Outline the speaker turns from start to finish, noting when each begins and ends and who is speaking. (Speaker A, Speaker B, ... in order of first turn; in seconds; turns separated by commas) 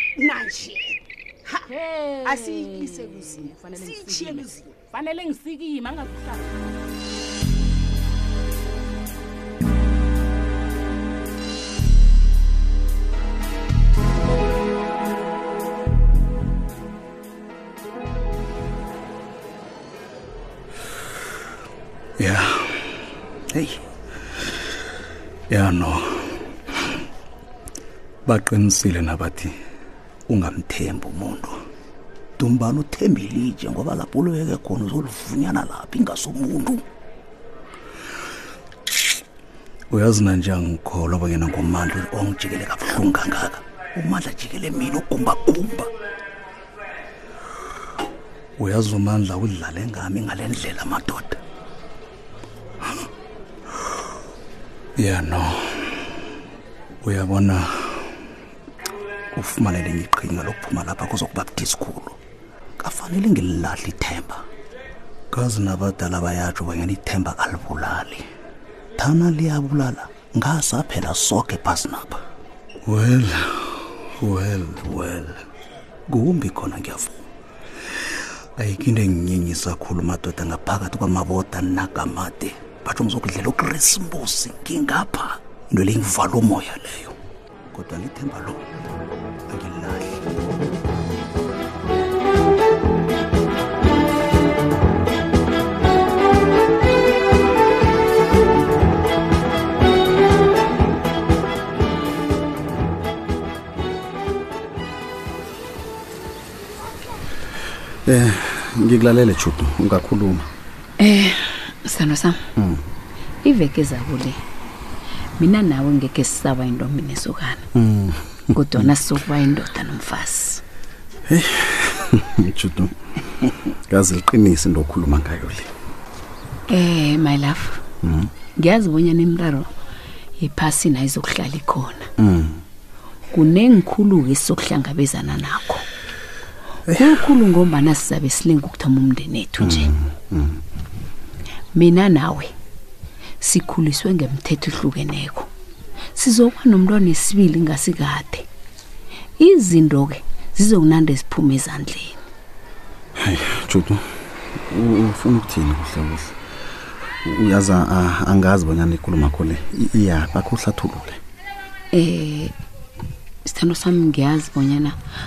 Speaker A: 0.2-1.7, Speaker B: 1.7-6.6, Speaker A: 2.2-4.7, Speaker C: 22.2-22.8, Speaker C: 25.5-26.0, Speaker C: 28.3-29.5, Speaker C: 30.3-31.5, Speaker C: 32.4-36.8, Speaker C: 39.9-45.9, Speaker C: 48.6-51.3, Speaker C: 55.0-55.6, Speaker C: 57.0-57.7, Speaker C: 59.4-62.1, Speaker C: 62.8-64.4, Speaker C: 65.3-68.2, Speaker C: 69.0-72.2, Speaker C: 72.9-73.4, Speaker C: 74.2-75.3, Speaker C: 76.1-77.1, Speaker C: 78.6-87.1, Speaker C: 87.7-88.6, Speaker C: 89.5-90.2, Speaker D: 108.0-110.5, Speaker E: 111.0-112.4, Speaker D: 112.6-112.8, Speaker E: 113.4-114.4, Speaker E: 115.4-117.7, Speaker D: 117.7-118.9, Speaker E: 118.5-120.6, Speaker D: 121.3-122.9, Speaker D: 123.4-125.7, Speaker E: 126.7-127.8, Speaker D: 128.0-128.3, Speaker E: 128.6-129.7, Speaker E: 130.4-132.1, Speaker D: 132.2-132.6, Speaker E: 133.3-135.8, Speaker D: 136.9-137.2, Speaker E: 137.0-139.9, Speaker D: 139.6-140.6, Speaker E: 141.7-142.5, Speaker E: 143.4-145.5, Speaker E: 146.1-148.4, Speaker E: 149.4-152.2, Speaker D: 153.2-154.0, Speaker D: 154.7-156.4, Speaker D: 157.2-161.2, Speaker E: 161.9-162.5, Speaker E: 163.4-164.9